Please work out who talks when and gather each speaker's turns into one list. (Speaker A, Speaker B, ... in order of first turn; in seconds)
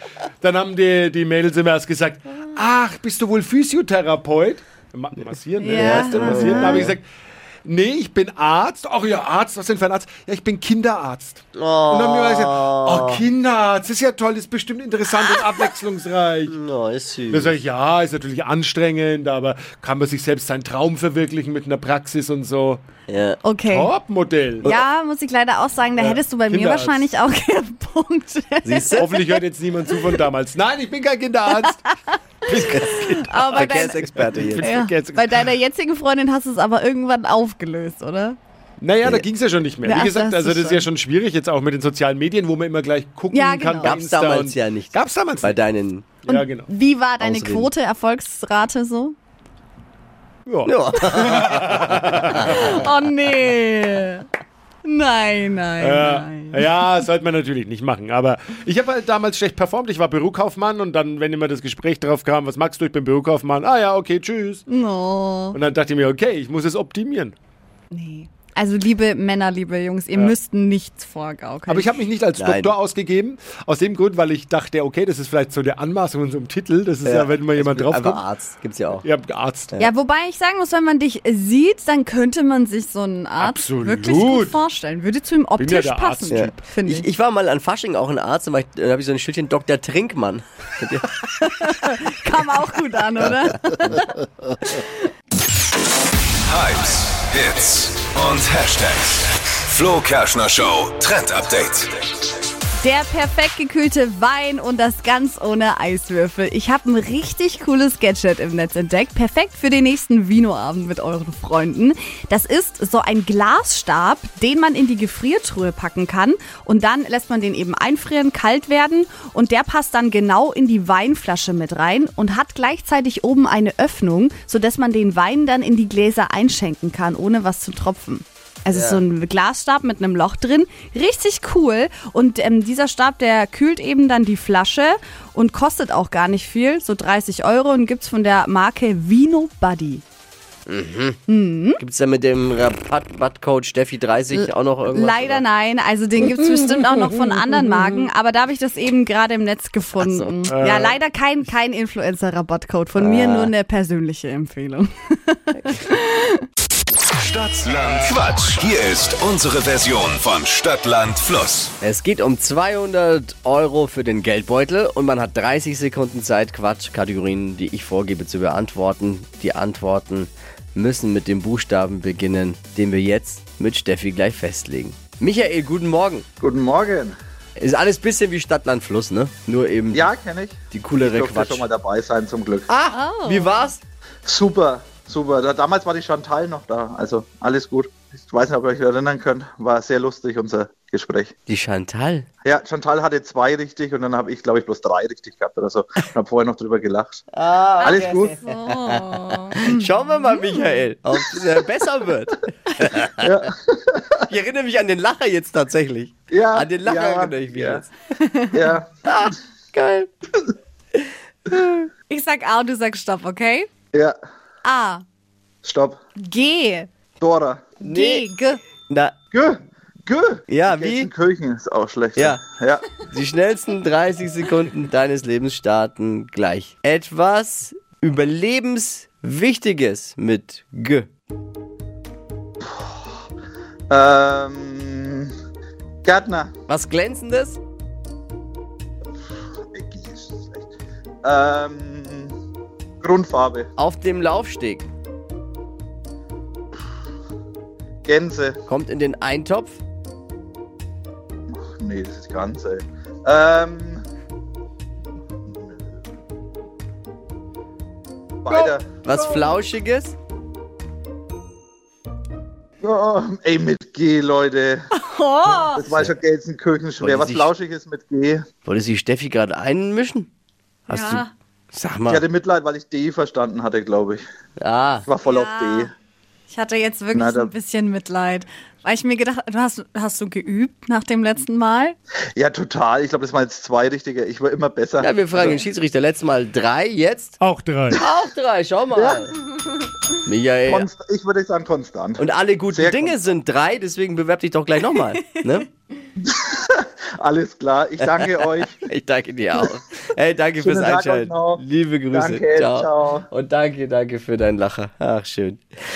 Speaker A: 0.4-7.0, 7.7-16.6, 17.3-22.8, 23.7-24.7, 26.0-27.1, 29.0-31.8, 32.5-35.5, 38.8-45.6, 46.3-46.7, 50.5-52.7, 55.8-64.6, 65.5-67.3, 71.7-78.2, 79.0-79.7, 83.4-84.6, 85.6-86.6, 150.5-151.0, 287.4-288.0
Speaker B: 5.6-6.9, 23.4-23.9, 24.6-29.4, 31.6-34.0, 34.6-38.4, 39.8-40.9, 43.3-44.0, 46.3-49.1, 52.4-54.3, 54.8-56.7, 64.7-65.6, 67.9-71.9, 79.8-87.1, 91.4-94.2, 102.8-140.0, 141.3-141.8, 144.3-156.5, 182.9-183.7, 197.9-199.9, 208.2-208.6, 212.1-213.7, 214.6-215.0, 216.2-216.9, 217.8-218.6, 264.9-265.9, 270.9-271.3, 275.2-275.9, 276.5-282.0, 294.9-295.4
Speaker C: 5.7-7.0, 11.6-13.3, 16.5-17.6, 23.1-23.4, 28.6-29.1, 32.7-33.0, 33.5-34.8, 43.8-46.1, 47.2-47.7, 50.6-51.9, 72.4-72.7, 77.0-79.0, 86.3-91.1, 93.2-94.1, 128.7-129.0, 140.7-145.4, 150.0-150.5, 153.0-153.5, 161.8-176.3, 177.6-180.1, 180.7-181.7, 182.7-183.8, 191.5-192.3, 197.3-203.5, 204.3-207.9, 209.1-210.1, 211.0-211.8, 217.8-218.3, 220.5-221.1, 222.2-222.4, 223.1-231.1, 236.7-237.6, 243.8-244.9, 248.7-249.8, 259.0-260.2, 267.0-267.5, 268.6-270.3, 270.9-272.3, 274.6-275.1, 285.0-287.4, 287.9-289.4, 290.3-290.9, 292.2-295.7, 298.0-305.6
Speaker D: 96.4-102.1, 157.2-161.8
Speaker E: 176.4-177.2, 179.9-182.7, 184.2-191.3, 192.4-197.2, 197.8-198.4, 203.2-204.2, 206.3-207.8, 208.5-208.9, 215.6-216.0, 217.2-217.7, 219.3-222.9, 232.6-233.0, 233.9-235.3, 236.1-236.5, 239.7-240.7, 241.2-242.3, 243.0-243.7, 248.1-248.6, 251.6-254.1, 258.4-258.9, 262.8-264.8, 265.5-268.4, 272.1-274.2, 275.1-275.9, 277.1-277.5, 282.4-285.6, 288.9-289.3, 290.6-293.2, 296.2-298.8, 300.6-303.3